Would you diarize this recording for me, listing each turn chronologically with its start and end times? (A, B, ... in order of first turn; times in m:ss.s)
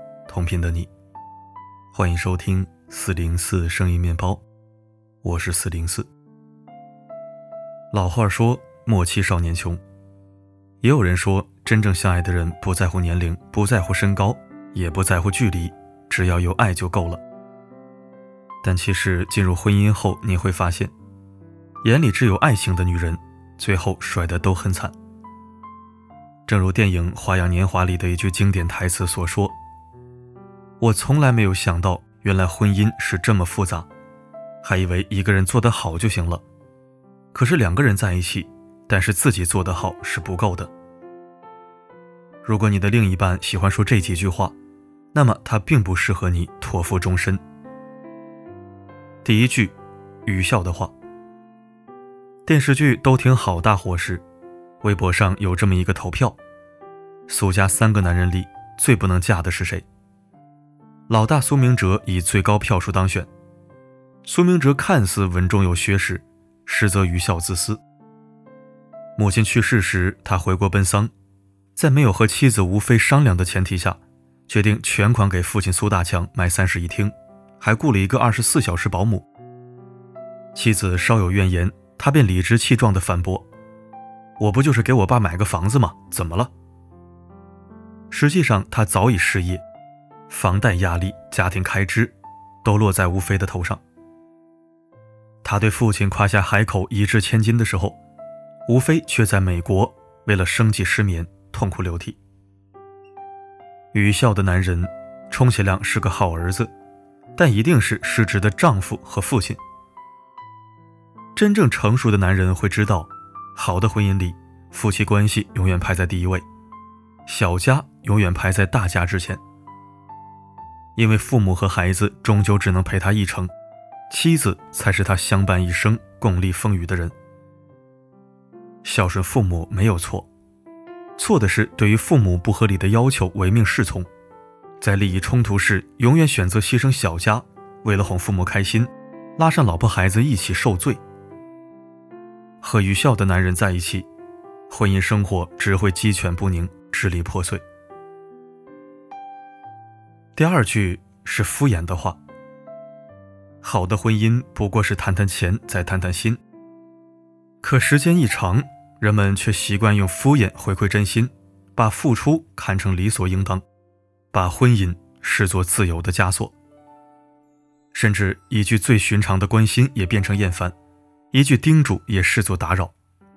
0:00.3-0:00.9 A
0:01.9-0:04.4 A
0:05.2-0:06.1 A
0:07.9-0:09.8 A
0:10.8-0:17.2 A
0:18.6-0:20.9 A
0:21.8-0:24.9 A
0:26.5-0:29.6 A
0:30.8-0:33.9 A
0:34.6-0:36.4 A
0:37.3-0:40.7 A
0:42.4-0:44.6 A
0:45.1-0:47.4 A
0:49.2-0:49.7 A
0:50.2-0:50.9 A
0:52.4-0:54.2 A
0:54.8-0:56.4 A
0:57.3-0:59.8 A
1:01.1-1:03.3 A
1:04.2-1:07.8 A
1:09.2-1:11.1 A
1:11.8-1:19.2 A
1:20.5-1:23.5 A
1:24.4-1:26.5 A
1:28.1-1:29.6 A
1:30.3-1:33.8 A
1:35.4-1:38.0 A
1:38.7-1:42.2 A
1:43.9-1:46.7 A
1:47.4-1:49.6 A
1:51.4-1:56.4 A
1:57.3-1:59.4 A
2:01.0-2:03.5 A
2:04.1-2:07.1 A
2:08.8-2:10.3 A
2:11.2-2:14.1 A
2:14.8-2:21.0 A
2:22.6-2:24.1 A
2:24.7-2:27.6 A
2:30.4-2:32.2 A
2:33.6-2:36.4 A
2:37.6-2:43.6 A
2:44.3-2:46.5 A
2:47.9-2:50.8 A
2:51.3-2:52.9 A